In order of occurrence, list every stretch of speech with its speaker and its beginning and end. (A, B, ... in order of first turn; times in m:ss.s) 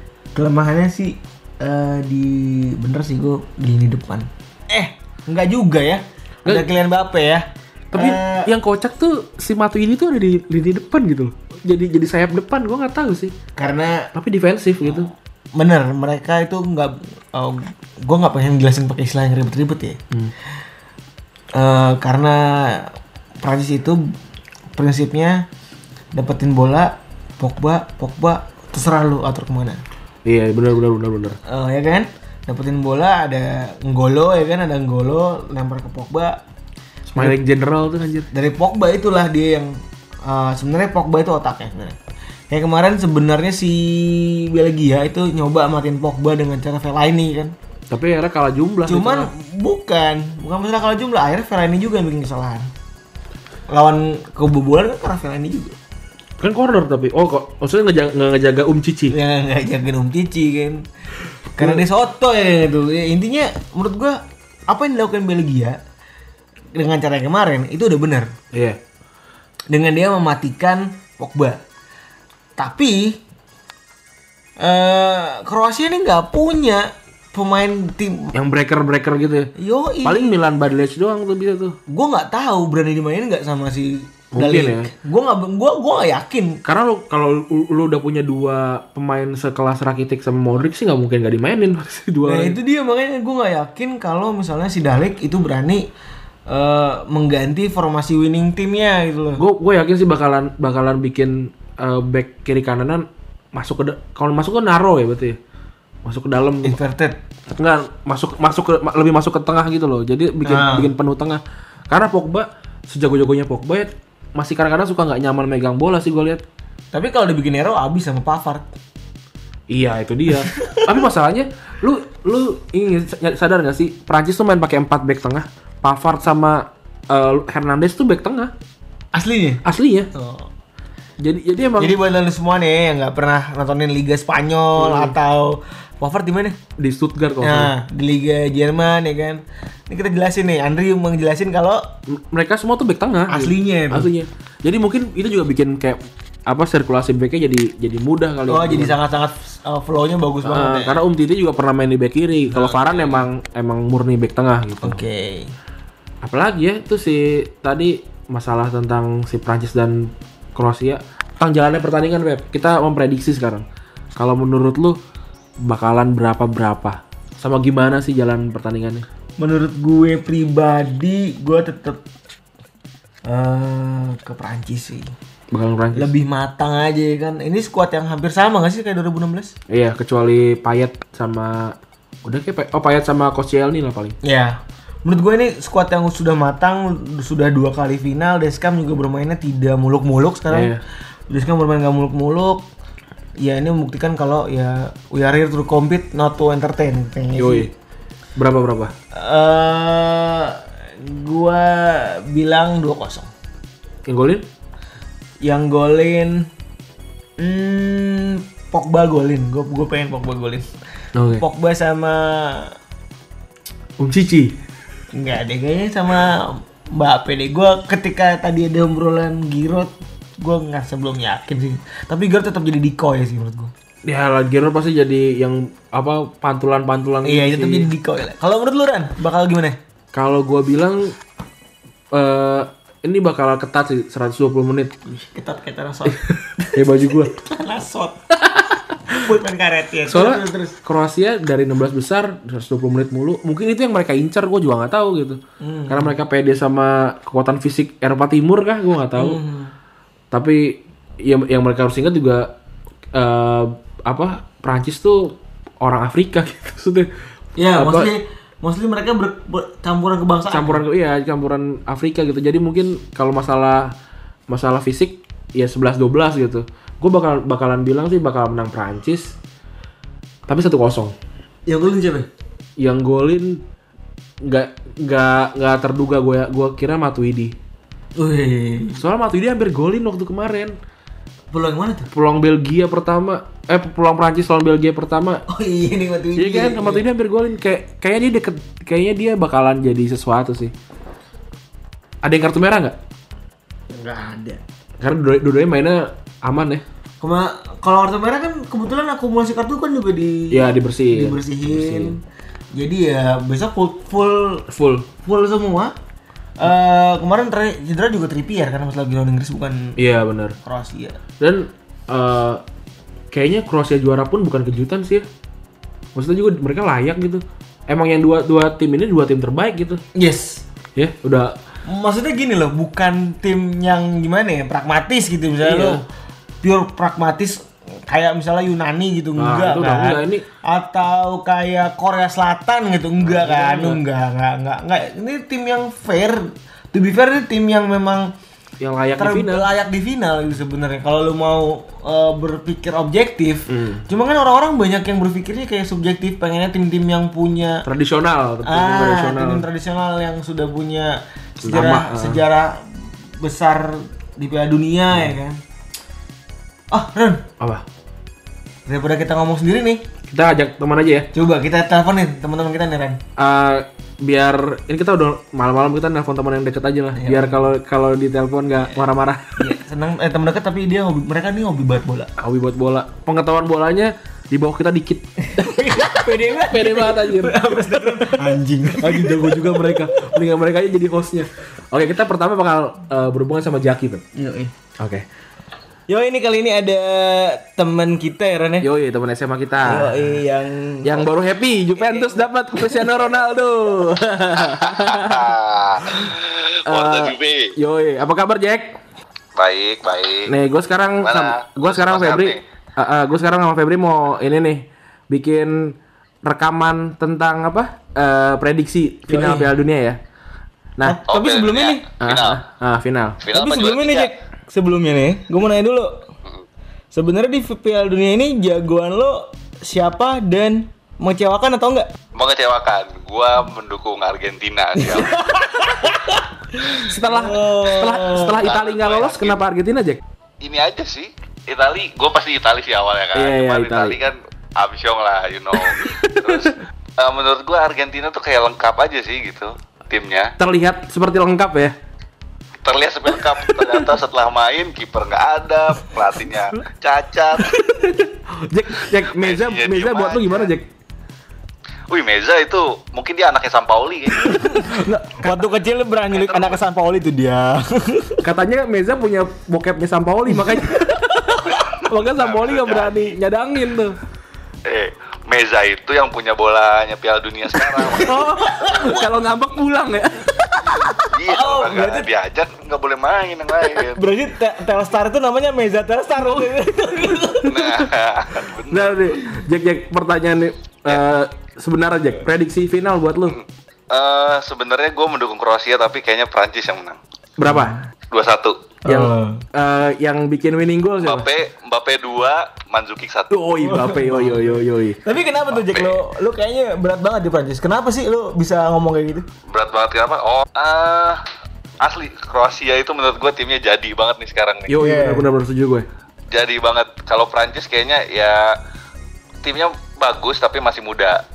0:00.3-0:08.5 A
0:07.9-0:13.4 B
0:13.6-0:14.1 A
0:14.1-0:15.1 B
0:15.5-0:20.0 A
0:21.5-0:24.1 A
0:24.7-0:25.4 A
0:26.1-0:29.8 A
0:30.2-0:31.4 B
0:31.5-0:36.4 A
0:37.1-0:38.3 B
0:38.3-0:42.0 A
0:42.5-0:47.5 A
0:47.9-0:49.3 B
0:48.9-0:52.7 A
0:53.7-0:55.8 A
0:56.4-0:59.2 B
0:59.1-1:00.8 A
1:01.5-1:05.8 A
1:01.6-1:01.8 B
1:06.7-1:08.3 A
1:08.5-1:08.8 B
1:09.7-1:11.6 A
1:12.6-1:13.2 A
1:14.6-1:18.3 A
1:18.3-1:19.5 B
1:19.6-1:20.3 A
1:20.0-1:21.8 B
1:21.9-1:26.6 A
1:24.3-1:24.9 B
1:26.6-1:32.6 B
1:32.2-1:35.8 A
1:36.5-1:39.4 A
1:39.4-1:45.4 B
1:46.0-1:46.8 B
1:46.6-1:47.2 A
1:47.5-1:56.4 B
1:50.4-1:50.9 A
1:56.9-1:58.7 A
1:59.7-2:08.5 B
2:00.4-2:00.9 A
2:09.1-2:09.6 A
2:09.6-2:10.1 B
2:10.1-2:10.5 A
2:11.2-2:12.0 B
2:11.8-2:16.6 A
2:14.8-2:15.1 B
2:16.8-2:17.7 B
2:17.4-2:21.8 A
2:22.1-2:29.0 B
2:23.3-2:24.1 A
2:28.5-2:31.0 A
2:30.4-2:35.0 B
2:32.5-2:33.2 A
2:34.8-2:35.5 A
2:36.2-2:43.6 B
2:44.2-2:45.0 B
2:45.6-2:49.0 B
2:49.4-2:52.0 A
2:53.2-2:55.1 A
2:55.5-2:56.1 B
2:55.9-2:59.5 A
2:59.7-3:04.2 B
3:04.2-3:10.8 A
3:10.5-3:10.8 B
3:11.3-3:12.6 A
3:13.4-3:17.7 A
3:17.4-3:17.7 B
3:18.4-3:18.9 B
3:19.1-3:23.3 A
3:24.0-3:24.4 B
3:25.4-3:26.5 A
3:27.4-3:30.7 A
3:31.1-3:31.4 B
3:31.3-3:32.7 A
3:34.0-3:34.6 B
3:35.1-3:43.7 A
3:44.0-3:47.9 B
3:47.2-3:49.8 A
3:50.1-3:51.1 B
3:52.1-3:54.9 B
3:55.0-3:58.2 A
3:56.1-3:57.3 B
3:58.5-3:58.7 B
3:59.1-4:00.7 A
4:00.1-4:09.4 B
4:05.6-4:06.1 A
4:09.2-4:09.7 A
4:10.3-4:12.5 B
4:13.1-4:17.1 B
4:17.6-4:20.8 A
4:17.7-4:18.1 B
4:20.5-4:23.9 B
4:24.5-4:29.3 B
4:30.5-4:31.1 B
4:31.7-4:32.3 A
4:32.8-4:33.6 B
4:34.4-4:37.6 B
4:38.2-4:39.0 A
4:39.0-4:40.8 B
4:41.5-4:42.1 A
4:42.1-4:45.4 B
4:45.5-4:47.0 A
4:46.4-4:50.7 B
4:52.2-4:53.0 B
4:53.9-4:54.6 A
4:55.0-4:56.8 B
4:57.2-5:02.2 A
5:00.5-5:02.2 B
5:02.7-5:04.7 A
5:04.7-5:05.1 B
5:05.2-5:05.9 A
5:06.6-5:10.0 A
5:10.0-5:10.6 B
5:10.6-5:11.2 A
5:11.4-5:12.6 B
5:13.3-5:15.2 B
5:16.1-5:20.0 B
5:20.1-5:20.6 A
5:21.0-5:21.6 B
5:21.8-5:26.0 A
5:25.6-5:26.0 B
5:26.6-5:38.3 A
5:29.4-5:30.4 B
5:33.2-5:34.0 B
5:38.8-5:39.7 B
5:39.2-5:47.9 A
5:43.7-5:44.0 B
5:47.8-5:49.6 B
5:48.6-5:52.9 A
5:51.6-5:52.4 B
5:53.4-5:55.6 A
5:56.9-5:57.4 A
5:58.9-6:00.0 A
6:00.3-6:01.3 B
6:01.3-6:03.2 A
6:03.4-6:09.8 B
6:07.1-6:07.6 A
6:09.6-6:12.3 A
6:12.4-6:18.5 B
6:15.4-6:20.2 A
6:19.0-6:24.2 B
6:24.3-6:24.7 A
6:25.0-6:25.2 B
6:26.1-6:28.9 A
6:28.8-6:30.4 B
6:29.8-6:31.3 A
6:31.0-6:36.3 B
6:32.0-6:32.4 A
6:34.8-6:37.7 C
6:36.8-6:39.0 B
6:39.6-6:40.5 C
6:40.4-6:50.2 B
6:41.2-6:42.6 C
6:49.3-6:49.7 A
6:51.0-6:52.1 A
6:51.3-6:52.6 C
6:52.2-6:53.4 B
6:53.4-6:54.3 C
6:53.5-6:56.2 A
6:57.1-7:02.1 A
7:02.3-7:05.4 C
7:05.0-7:08.6 A
7:06.9-7:10.2 B
7:08.5-7:09.6 C
7:10.6-7:20.5 C
7:13.3-7:14.2 B
7:15.7-7:16.8 B
7:20.6-7:22.0 B
7:22.8-7:27.8 C
7:23.3-7:24.1 B
7:27.8-7:30.9 B
7:29.2-7:30.7 C
7:32.1-7:34.7 C
7:34.5-7:38.4 A
7:34.6-7:35.6 B
7:36.3-7:36.8 C
7:38.4-7:44.2 B
7:41.7-7:43.2 C
7:44.9-7:49.3 C
7:48.1-7:51.2 B
7:48.2-7:49.1 A
7:51.2-7:54.2 C
7:51.5-7:52.3 A
7:54.1-7:58.0 A
7:57.7-7:59.4 C
7:57.8-7:58.1 B
7:58.9-8:03.6 B
8:03.5-8:07.2 C
8:07.6-8:08.0 B
8:07.6-8:08.0 A
8:08.3-8:08.9 C
8:09.0-8:09.6 A
8:09.0-8:11.5 B
8:11.2-8:13.6 C
8:13.5-8:15.2 B
8:13.8-8:19.4 A
8:15.9-8:16.2 C
8:19.7-8:21.4 C
8:22.0-8:24.9 C
8:24.9-8:26.1 B
8:25.0-8:25.5 A
8:26.5-8:28.7 C
8:29.6-8:31.4 C